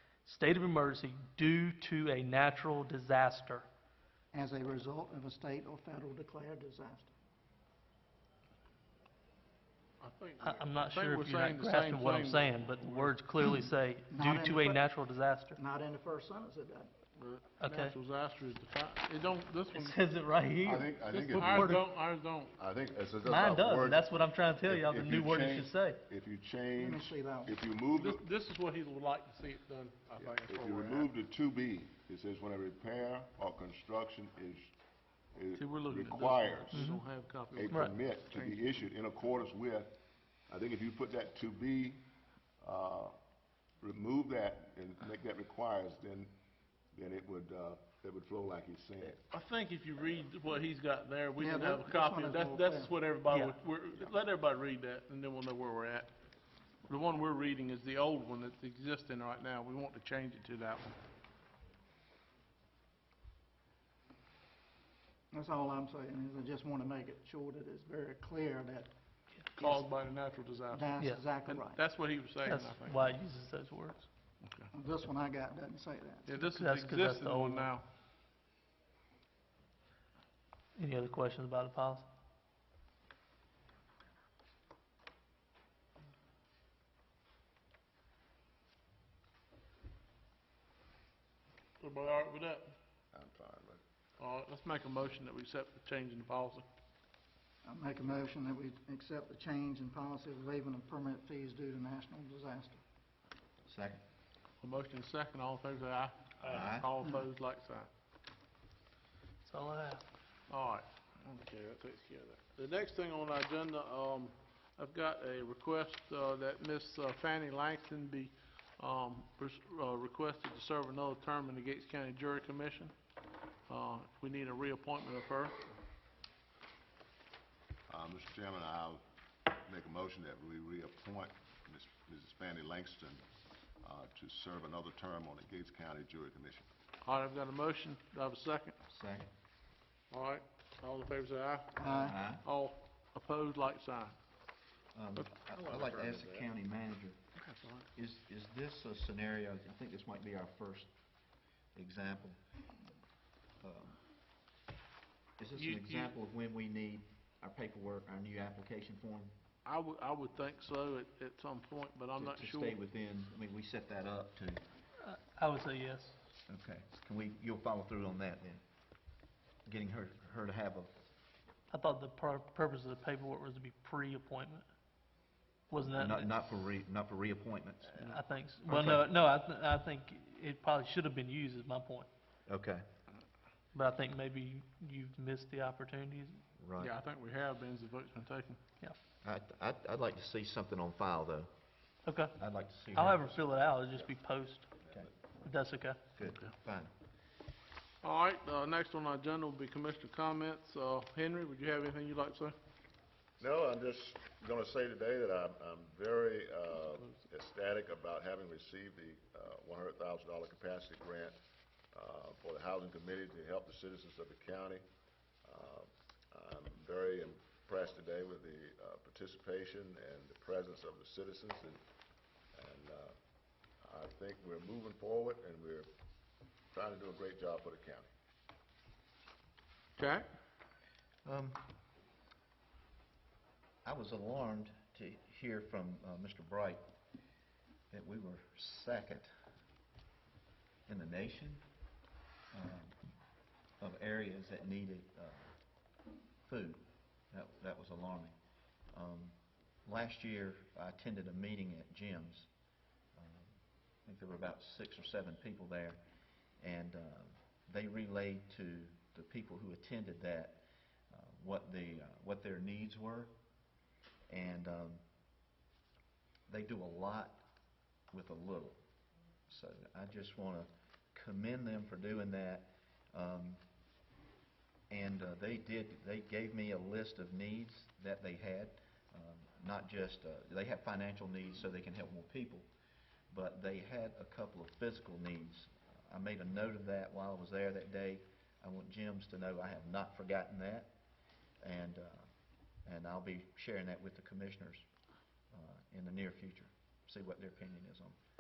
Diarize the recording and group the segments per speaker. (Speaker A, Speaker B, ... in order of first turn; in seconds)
Speaker A: 0.2-3.7, 10.4-15.6, 17.6-18.0, 19.7-21.8, 23.2-26.0, 36.7-37.0, 72.4-74.1, 76.4-77.7, 80.8-82.1, 109.5-110.0, 165.0-166.2, 171.7-174.7, 175.7-176.3, 178.0-182.1, 183.7-186.4, 192.1-192.4, 192.9-194.7, 195.4-196.0
Speaker B: 4.3-7.1, 14.1-14.8, 15.6-16.9, 26.7-27.6, 51.4-52.9, 65.3-68.9, 70.7-71.8, 74.7-76.3, 97.6-102.8, 141.8-142.2
Speaker C: 10.0-13.2, 17.2-20.0, 21.1-22.6, 27.9-31.1, 35.5-38.6, 49.3-56.1, 56.9-61.0, 69.6-71.0, 71.5-73.2, 74.4-74.7, 76.3-77.9, 91.8-92.7, 94.2-96.7, 104.6-107.9, 110.5-122.9, 123.7-125.6, 137.0-138.8, 140.1-144.2, 145.2-146.3, 147.4-147.9, 155.6-156.1, 159.7-162.8, 186.8-188.6, 198.0-202.6, 230.0-230.3
Speaker D: 20.6-21.8, 22.6-28.3, 30.2-34.7, 35.3-37.0, 37.5-40.0, 40.5-42.0, 42.6-43.2, 43.8-46.3, 46.9-49.2, 93.1-93.8, 127.9-133.2, 133.8-136.7, 203.4-211.4, 211.9-214.8, 215.4-221.8, 222.6-223.1, 223.8-225.9, 226.7-228.1
Speaker E: 103.7-104.0, 106.4-106.9, 138.9-139.3, 141.8-142.4, 144.9-147.2, 147.9-150.9, 151.8-152.4, 153.6-154.0, 155.4-159.3, 162.2-164.6, 166.5-168.6, 169.7-170.9, 175.8-179.1, 182.5-182.8, 186.6-186.9, 189.2-191.5, 192.3-194.1, 196.2-196.9, 231.2-231.6, 233.8-236.8, 237.9-239.3, 240.9-241.6, 242.5-243.0, 243.8-245.6, 246.4-248.3, 248.9-252.5, 253.2-256.0, 256.6-263.3, 264.3-265.0, 266.5-267.4, 268.1-268.8, 269.5-273.6, 274.9-282.7, 283.3-290.9, 291.6-292.3, 292.9-294.9, 295.5-298.2